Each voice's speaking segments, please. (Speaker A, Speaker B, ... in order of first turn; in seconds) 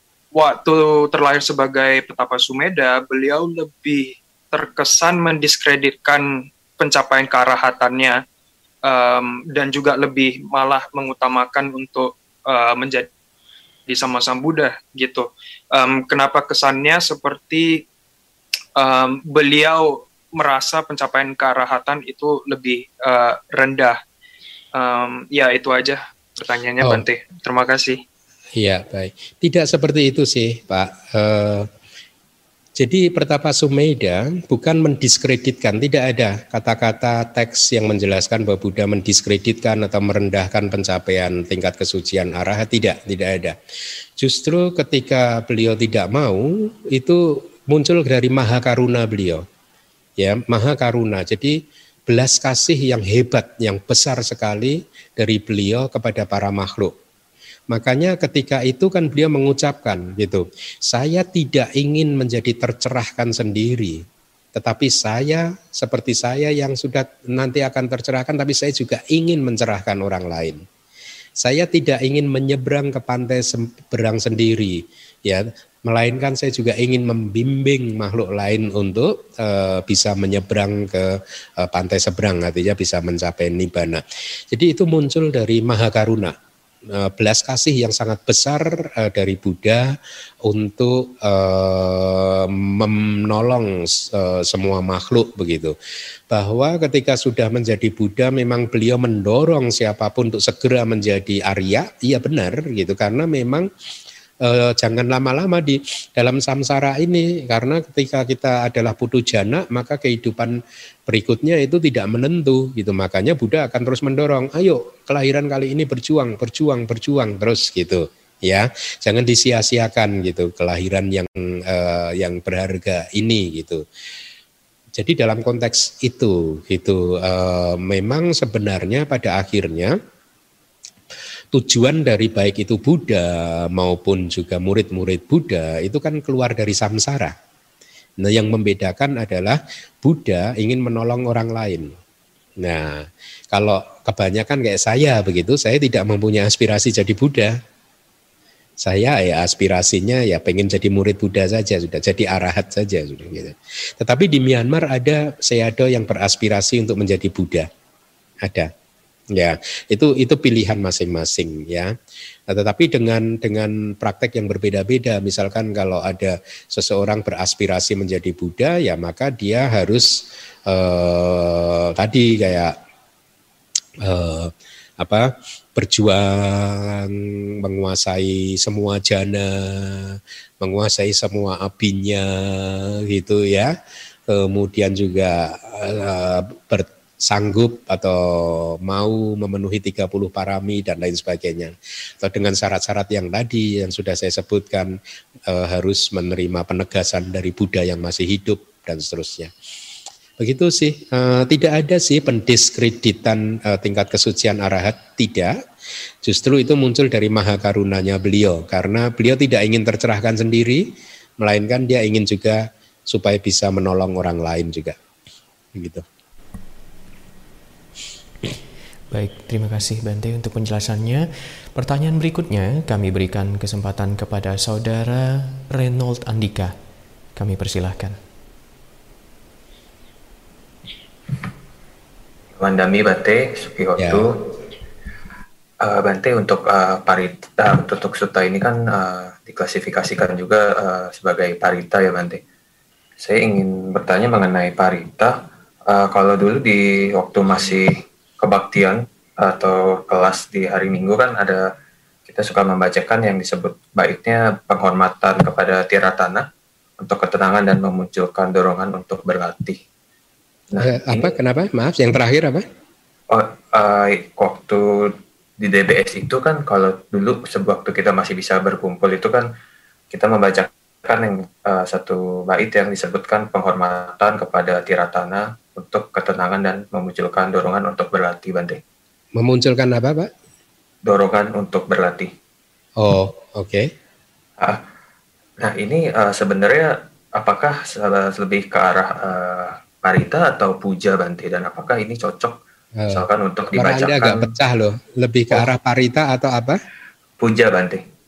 Speaker A: 0.3-8.2, 8.9-13.1, 13.9-17.8, 18.8-24.0, 24.8-28.0
Speaker B: 28.6-31.7, 32.8-43.6, 44.2-49.4, 50.2-56.9, 57.7-64.0, 64.6-70.6, 71.4-86.3, 86.9-89.9, 90.5-95.7, 96.3-103.7, 104.4-110.6, 111.1-123.8, 125.0-129.9, 131.5-137.3, 138.2-141.9, 142.6-147.6, 148.8-157.7, 158.4-158.7, 159.3-161.9, 162.5-172.7, 174.0-183.7, 184.3-194.9, 195.5-199.5, 200.4-205.5, 206.2-210.8, 211.4-215.0, 215.8-216.1, 234.0-234.3, 260.8-262.7, 279.4-280.3, 283.0-283.9, 293.0-293.2, 293.8-296.8
Speaker C: 219.1-226.7, 227.4-228.2
Speaker D: 232.6-234.4, 235.8-242.4, 243.2-251.6, 252.3-256.4, 257.0-259.8, 260.7-261.4, 263.3-269.5, 270.1-278.8, 281.1-282.3, 285.6-292.6, 293.1-294.5, 297.4-298.0